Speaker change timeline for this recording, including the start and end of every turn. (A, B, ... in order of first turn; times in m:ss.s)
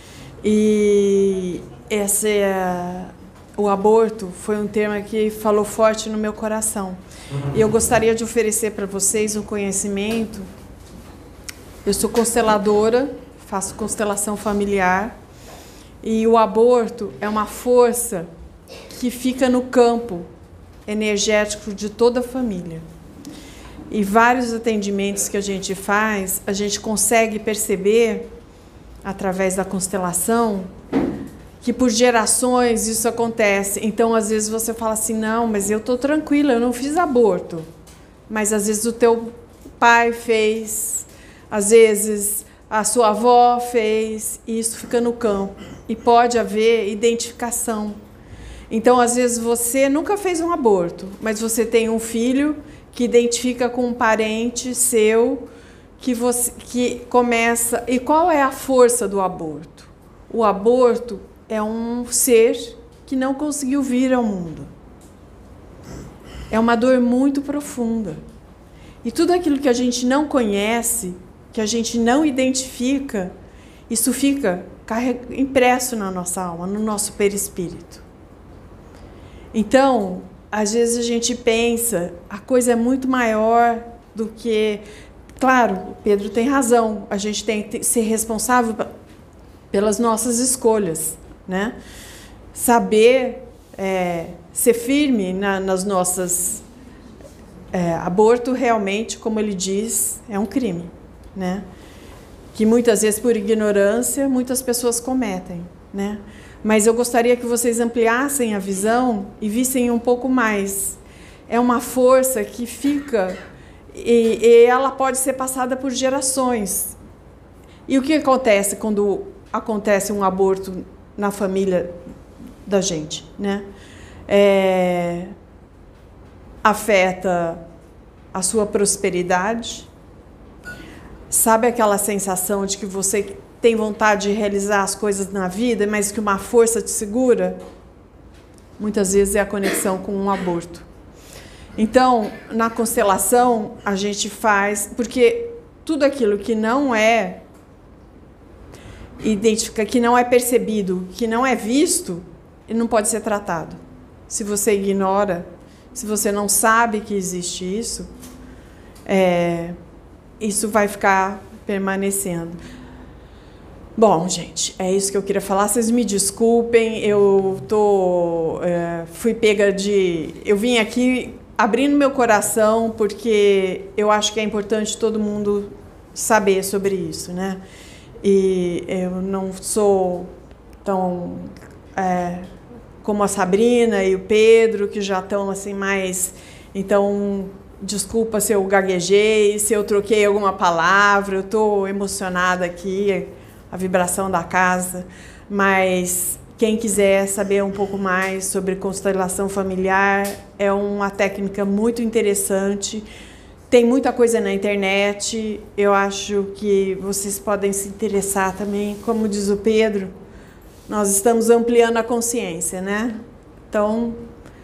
0:00.4-0:07.0 A
0:07.5-0:10.5 A
0:11.8-0:15.1 A
0:16.0-0:18.3 A
0:18.9-0:20.3 A
0:20.8-0:22.8 A
0:23.9-0:28.3 A
0:29.0-0:30.7 A
0:31.6-0:37.7 A
0:38.3-0:48.0 A
0:48.7-1:04.7 A
1:06.5-1:08.2 A
1:09.0-1:13.3 A
1:13.9-1:18.0 A
1:19.5-1:24.8 A
1:25.4-1:28.9 A
1:29.7-1:31.7 A
1:32.5-1:36.6 A
1:37.7-1:41.6 A
1:42.5-1:53.4 A
1:53.9-1:57.0 A
1:57.9-2:02.0 A
2:02.6-2:03.6 A
2:04.3-2:05.3 A
2:06.6-2:07.6 A
2:08.3-2:09.9 A
2:11.3-2:17.6 A
2:18.8-2:20.8 A
2:21.8-2:27.4 A
2:29.2-2:38.1 A
2:39.0-2:39.8 A
2:40.4-2:42.6 A
2:44.0-2:57.6 A
2:58.2-3:00.3 A
3:00.8-3:02.5 A
3:03.0-3:23.1 A
3:23.7-3:30.1 A
3:30.9-3:34.2 A